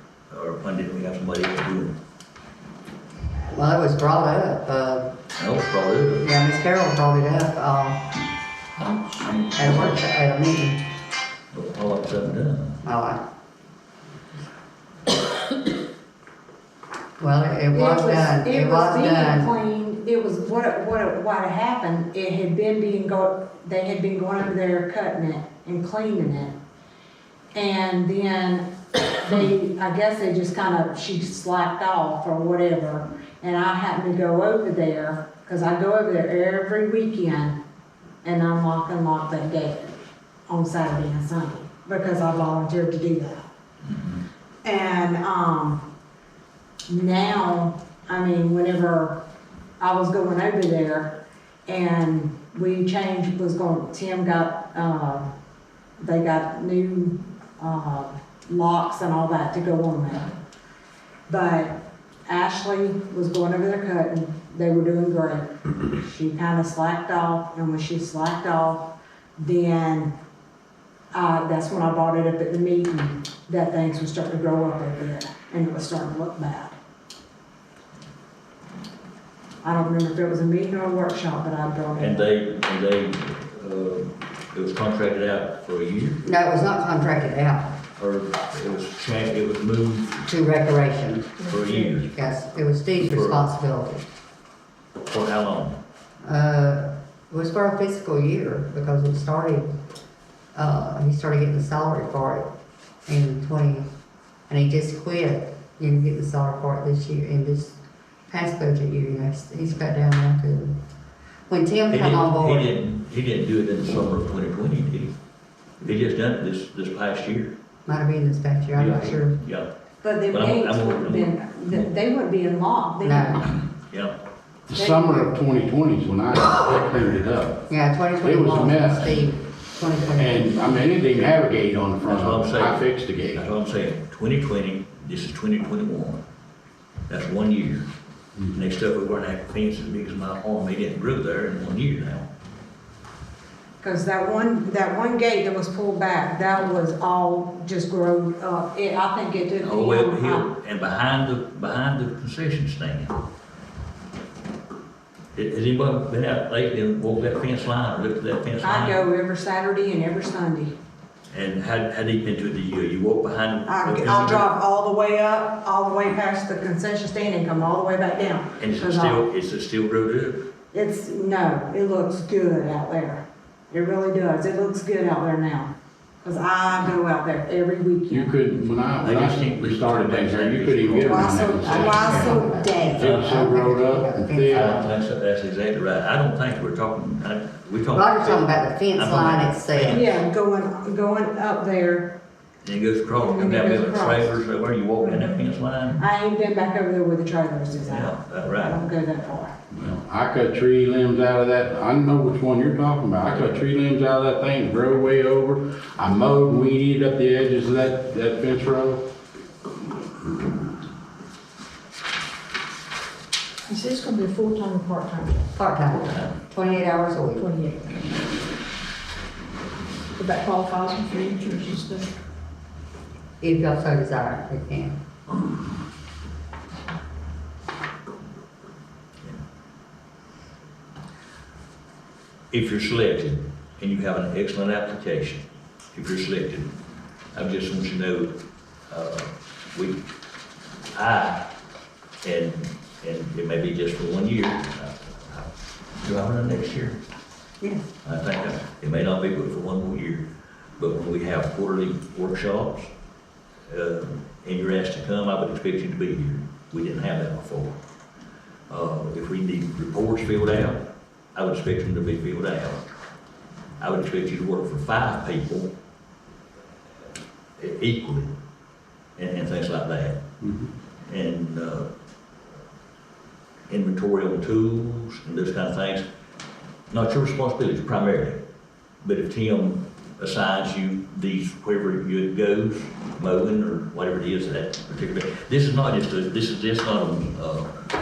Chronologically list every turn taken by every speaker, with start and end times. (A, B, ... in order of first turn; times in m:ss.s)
0:00.3-0:02.0 A
0:03.5-0:05.1 B
0:05.4-0:06.3 A
0:06.2-0:08.1 B
0:09.0-0:09.4 C
0:09.5-0:10.8 B
0:11.5-0:12.8 A
0:12.8-0:13.2 B
0:17.2-0:19.5 B
0:17.7-0:26.6 D
0:27.6-0:37.6 D
0:38.2-0:39.9 D
0:40.5-0:43.5 D
0:43.9-0:44.2 A
0:44.6-0:45.8 D
0:46.9-0:49.2 D
0:49.8-0:55.3 D
0:56.0-1:00.3 D
1:01.3-1:10.1 D
1:11.1-1:16.8 D
1:19.6-1:22.3 D
1:22.0-1:26.2 A
1:26.2-1:27.8 B
1:28.0-1:30.2 A
1:30.3-1:34.0 B
1:31.5-1:32.2 A
1:33.0-1:33.4 A
1:35.1-1:35.8 A
1:36.2-1:39.7 B
1:40.6-1:42.5 B
1:43.1-1:43.9 B
1:44.5-1:47.8 B
1:48.3-1:50.8 B
1:51.5-1:52.7 B
1:51.9-1:55.1 A
1:55.8-1:57.5 A
1:57.9-1:59.4 B
1:58.8-1:59.7 A
2:00.0-2:03.6 D
2:00.3-2:01.9 A
2:03.0-2:03.4 B
2:03.9-2:04.2 A
2:04.7-2:07.7 E
2:04.7-2:05.3 D
2:07.7-2:10.8 B
2:08.2-2:09.3 E
2:10.1-2:13.5 E
2:12.0-2:16.2 A
2:17.1-2:17.9 A
2:18.5-2:22.3 A
2:23.8-2:30.5 D
2:29.6-2:33.2 A
2:35.4-2:39.0 A
2:38.6-2:40.8 D
2:41.3-2:44.5 A
2:43.7-2:49.2 D
2:48.6-2:50.5 A
2:50.7-2:55.7 D
2:56.2-2:58.4 D
2:58.1-3:04.8 E
2:59.0-3:03.3 A
3:01.0-3:03.1 D
3:01.6-3:04.9 B
3:04.5-3:10.1 A
3:07.9-3:10.0 B
3:09.9-3:12.2 D
3:12.6-3:16.0 A
3:13.2-3:14.4 D
3:15.0-3:15.4 D
3:16.0-3:19.6 D
3:17.8-3:18.8 A
3:19.8-3:29.0 E
3:33.7-3:35.5 C
3:35.5-3:37.6 B
3:37.4-3:37.8 C
3:40.2-3:42.1 C
3:43.4-3:45.0 B
3:52.5-3:56.7 A
3:57.3-3:58.4 A
3:58.9-4:00.0 A
4:00.9-4:01.5 A
4:02.2-4:07.0 A
4:08.0-4:10.3 A
4:10.8-4:12.9 A
4:13.7-4:17.8 A
4:18.7-4:20.8 A
4:21.4-4:22.8 A
4:23.8-4:25.7 A
4:27.6-4:28.3 A
4:29.2-4:30.2 A
4:30.4-4:30.7 E
4:31.0-4:31.9 A
4:33.7-4:36.0 A
4:36.9-4:38.4 A
4:39.0-4:47.7 A